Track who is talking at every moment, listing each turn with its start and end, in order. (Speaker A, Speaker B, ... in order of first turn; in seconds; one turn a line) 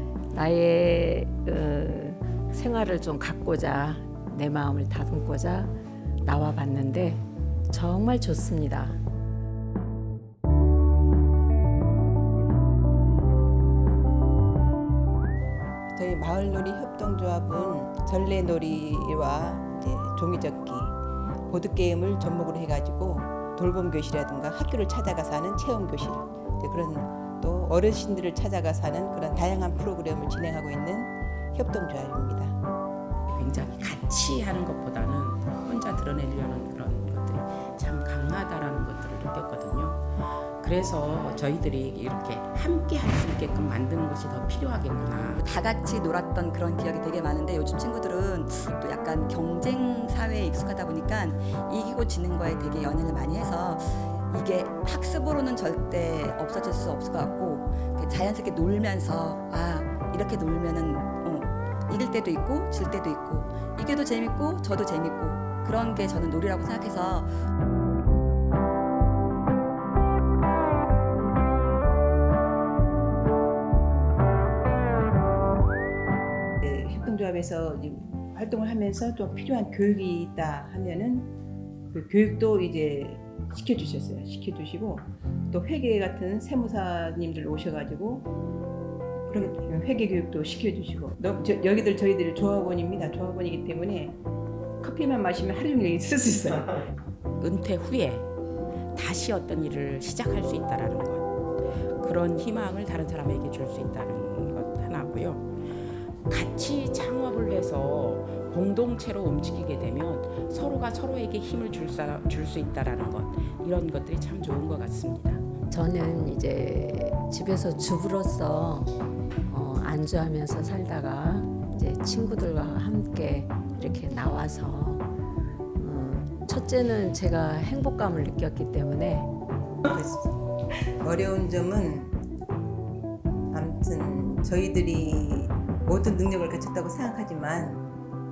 Speaker A: 0.3-9.0
Speaker B: 15.9-21.0
Speaker B: 21.5-32.6
Speaker C: 33.3-45.4
Speaker D: 45.4-67.3
Speaker B: 76.6-81.3
Speaker B: 81.9-88.3
Speaker B: 89.3-94.2
Speaker B: 94.8-96.9
Speaker C: 97.4-98.3
Speaker C: 98.9-101.3
Speaker C: 102.0-115.4
Speaker A: 115.7-118.9
Speaker A: 119.5-125.1
Speaker A: 125.8-129.3
Speaker B: 129.9-130.4
Speaker B: 131.0-132.2
Speaker B: 133.5-137.8